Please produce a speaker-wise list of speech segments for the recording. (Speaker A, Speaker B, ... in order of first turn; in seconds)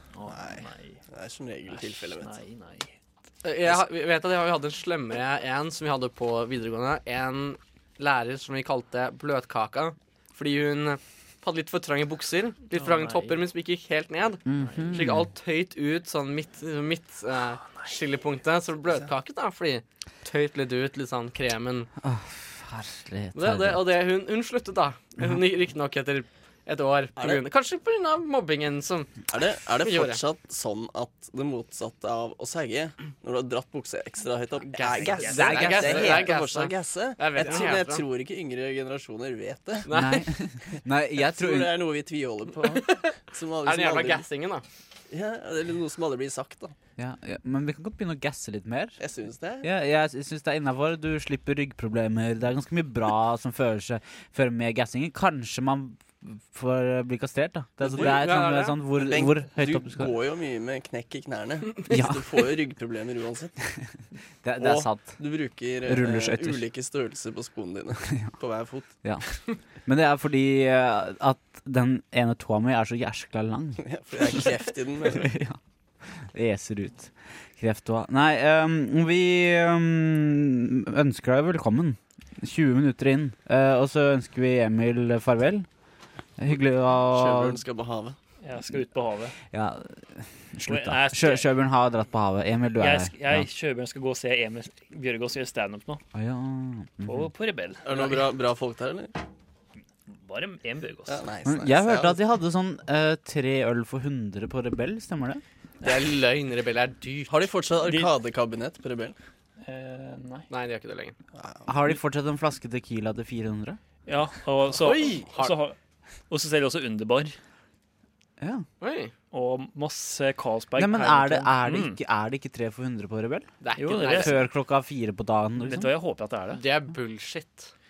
Speaker A: 0.1-1.0, 1.7-2.9, 12.7-13.4, 14.6-15.1, 88.4-89.3, 90.7-91.5, 92.8-96.0, 97.0-98.3, 100.1-101.2, 107.8-108.1, 109.6-110.5, 114.0-115.8, 116.3-117.3, 119.3-122.0, 123.8-124.5, 125.6-126.6
Speaker B: 0.2-2.3, 27.2-27.4, 29.3-39.9, 41.2-44.2, 45.1-46.7, 49.0-49.6, 57.9-58.2, 59.0-63.6, 64.6-68.9, 73.8-75.3, 87.1-88.2, 97.8-99.1, 101.1-102.2, 107.3-109.2, 111.3-111.7
Speaker C: 3.4-21.9, 23.3-29.3, 29.8-30.2, 34.6-38.0, 39.9-40.2, 42.8-43.1, 43.6-44.6, 57.9-58.8, 105.8-107.4, 110.5-111.1, 114.8-115.6, 118.8-119.1, 123.6-124.3, 126.5-127.7
Speaker D: 14.4-15.3, 22.0-23.9, 35.3-36.3, 39.9-41.7, 47.0-49.0, 49.6-60.1, 61.9-62.3, 64.4-65.2, 65.8-66.6, 69.8-74.5, 75.0-85.7, 86.4-87.6, 89.5-93.5, 96.1-97.3, 101.5-105.4, 111.7-113.8, 118.4-118.6, 120.8-123.5, 124.0-125.9